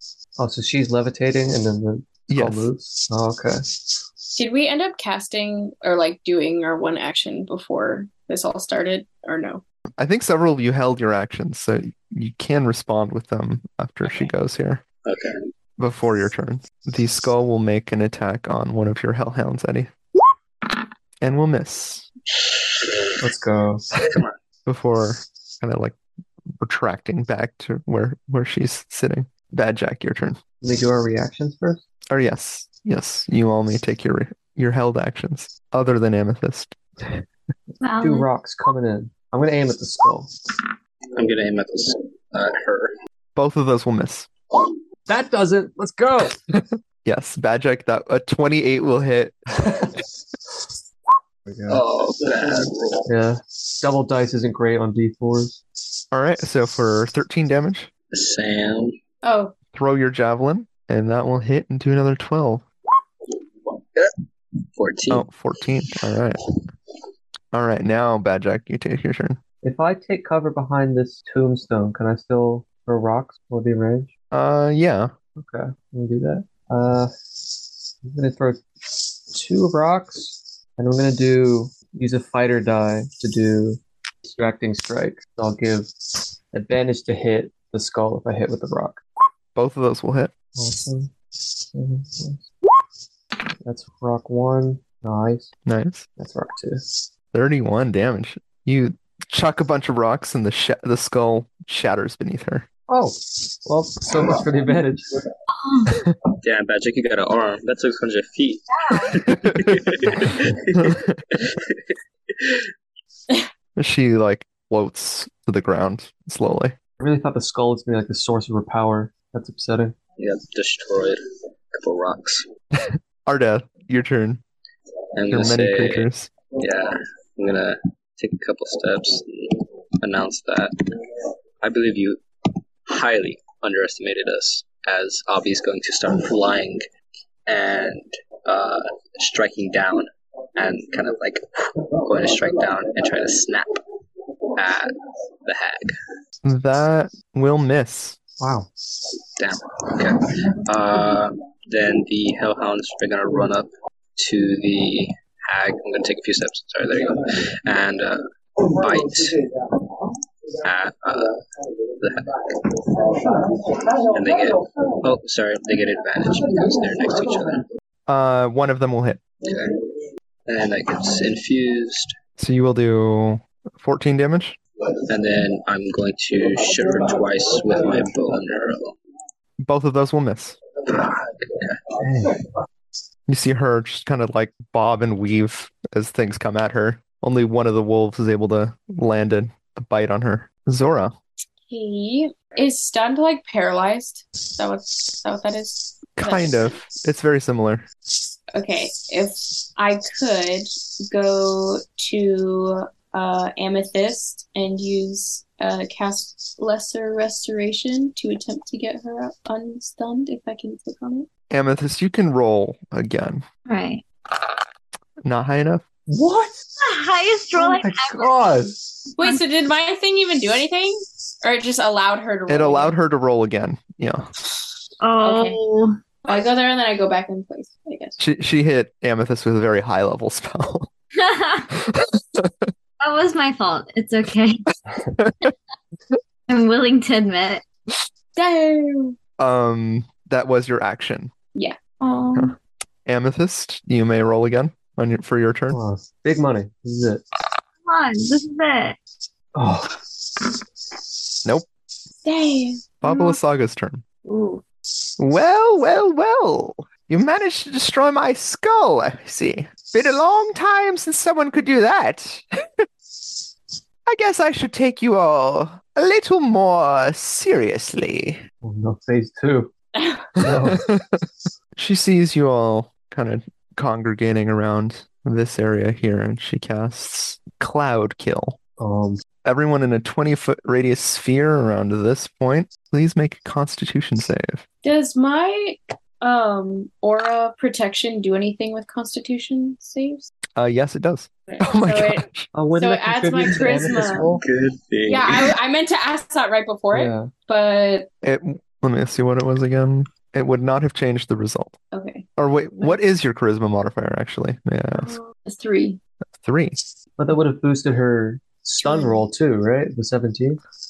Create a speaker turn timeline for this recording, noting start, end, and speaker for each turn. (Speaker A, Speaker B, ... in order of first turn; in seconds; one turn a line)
Speaker A: 0.4-3.8
Speaker B: 2.3-2.7
Speaker C: 4.3-9.6
Speaker B: 10.0-14.8
Speaker D: 15.1-15.4
Speaker B: 15.8-19.9
Speaker B: 21.2-22.1
Speaker D: 22.8-23.1
Speaker A: 23.2-24.0
Speaker D: 24.0-24.4
Speaker B: 24.6-26.0
Speaker B: 26.6-30.4
Speaker A: 30.6-31.8
Speaker B: 32.1-37.2
Speaker E: 37.8-38.3
Speaker A: 38.0-40.3
Speaker D: 41.1-42.9
Speaker B: 43.4-44.3
Speaker A: 45.1-46.4
Speaker B: 46.5-49.6
Speaker A: 49.6-50.0
Speaker A: 51.5-51.8
Speaker D: 51.7-53.0
Speaker A: 53.0-55.6
Speaker B: 56.1-57.9
Speaker D: 58.1-59.0
Speaker C: 59.2-59.5
Speaker B: 59.7-62.6
Speaker D: 63.7-64.1
Speaker D: 64.8-65.3
Speaker B: 65.1-66.4
Speaker B: 67.5-69.4
Speaker A: 69.6-74.1
Speaker B: 74.3-75.1
Speaker A: 75.3-77.1
Speaker A: 78.0-85.9
Speaker A: 86.5-89.0
Speaker B: 89.5-90.3
Speaker A: 90.5-92.5
Speaker A: 93.6-95.5
Speaker B: 95.7-96.1
Speaker A: 96.2-97.0
Speaker B: 97.3-102.7
Speaker A: 102.9-105.0
Speaker E: 105.5-106.0
Speaker D: 106.4-112.6
Speaker E: 108.7-109.2
Speaker B: 109.5-109.8
Speaker B: 110.7-111.2
Speaker B: 113.8-116.8
Speaker A: 117.0-120.0
Speaker D: 120.2-121.2
Speaker D: 121.7-122.4
Speaker B: 122.7-124.4
Speaker D: 125.1-126.1
Speaker B: 125.3-126.3
Speaker D: 126.6-130.7
Speaker D: 131.6-132.2
Speaker D: 132.9-136.8
Speaker D: 137.5-143.7
Speaker D: 144.6-144.9
Speaker D: 145.4-145.9
Speaker B: 146.4-148.2
Speaker A: 148.4-148.7
Speaker D: 149.4-159.8
Speaker D: 160.6-161.4
Speaker D: 162.0-167.7
Speaker B: 168.1-169.2
Speaker D: 169.4-169.9
Speaker D: 170.5-172.1
Speaker B: 172.4-174.6
Speaker D: 175.1-179.0
Speaker B: 179.6-180.6
Speaker D: 180.8-181.8
Speaker A: 182.0-182.4
Speaker B: 183.3-191.2
Speaker C: 191.7-196.8
Speaker B: 196.2-197.8
Speaker C: 198.5-211.3
Speaker B: 211.5-213.4
Speaker E: 213.7-214.0
Speaker B: 215.2-215.8
Speaker A: 216.1-216.5
Speaker E: 216.8-218.5
Speaker A: 217.5-219.1
Speaker C: 219.2-223.0
Speaker B: 222.5-224.3
Speaker E: 225.0-226.0
Speaker C: 225.2-225.6
Speaker C: 226.2-228.2
Speaker B: 228.2-230.9
Speaker E: 231.2-231.7
Speaker B: 231.7-232.7
Speaker E: 233.0-234.6
Speaker B: 235.2-235.5
Speaker E: 236.5-237.6
Speaker C: 238.3-239.2
Speaker B: 239.4-241.3
Speaker E: 242.0-242.5
Speaker B: 242.3-245.8
Speaker A: 245.7-247.2
Speaker E: 247.8-249.0
Speaker A: 249.5-250.1
Speaker C: 252.2-253.0
Speaker B: 253.0-254.0
Speaker E: 253.1-253.3
Speaker E: 254.2-254.6
Speaker B: 255.2-262.9
Speaker B: 264.1-268.4
Speaker A: 268.6-269.7
Speaker C: 269.9-270.4
Speaker A: 270.4-270.9
Speaker B: 270.7-271.2
Speaker B: 271.8-278.6
Speaker A: 278.8-279.2
Speaker B: 279.4-284.6
Speaker C: 284.8-290.3
Speaker B: 290.6-292.5
Speaker C: 291.5-294.4
Speaker A: 292.5-294.4
Speaker D: 294.4-295.6
Speaker C: 295.1-298.1
Speaker A: 296.9-297.3
Speaker B: 298.2-301.8
Speaker C: 301.9-302.2
Speaker B: 302.4-305.2
Speaker C: 304.9-306.0
Speaker B: 306.3-306.8
Speaker A: 307.2-310.6
Speaker C: 308.8-309.2